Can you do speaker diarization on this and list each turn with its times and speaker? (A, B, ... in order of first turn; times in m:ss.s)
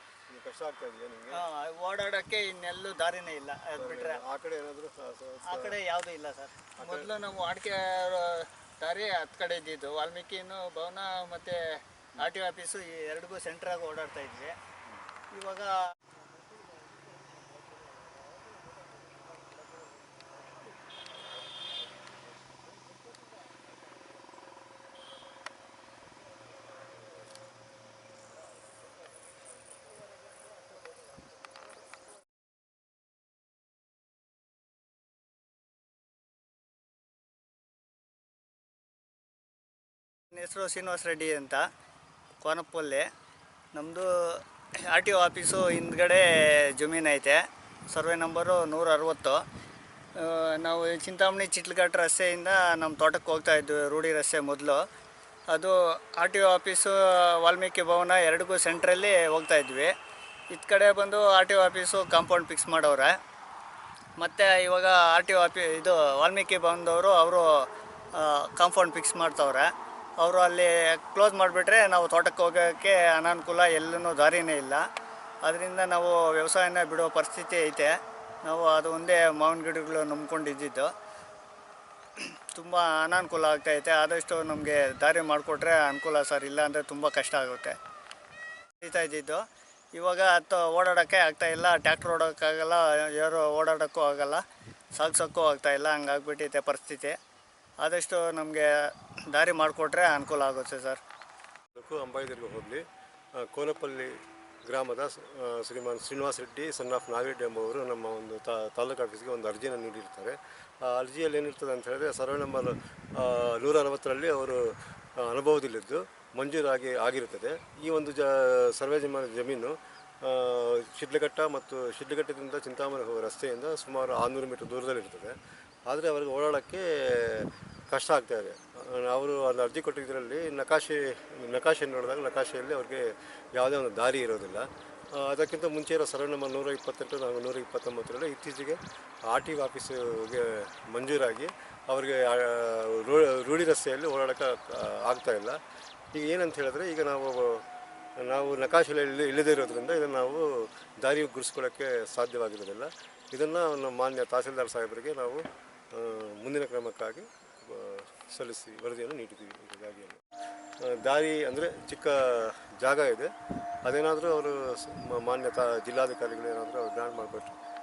0:00.3-0:01.4 A
0:01.3-0:04.2 B
0:03.8-0:05.8 A
0:05.4-0:14.5 B
0:06.8-0:07.1 A
0:15.3-0:15.8 B
0:40.3-0:41.6 B
0:42.4-0:43.1 B
0:43.7-0:49.4 B
0:50.2-0:54.8 B
0:55.5-0:59.9 B
1:00.5-1:03.2 B
1:04.2-1:14.8 B
1:15.4-1:20.9 B
1:22.2-1:27.8 B
1:28.8-1:34.4 B
1:34.9-1:37.2 B
1:37.8-1:41.0 B
1:41.8-1:42.8 A
1:43.4-2:25.6 A
2:26.1-2:27.6 A
2:28.2-2:40.2 A
2:40.8-2:43.3 A
2:43.8-2:47.6 A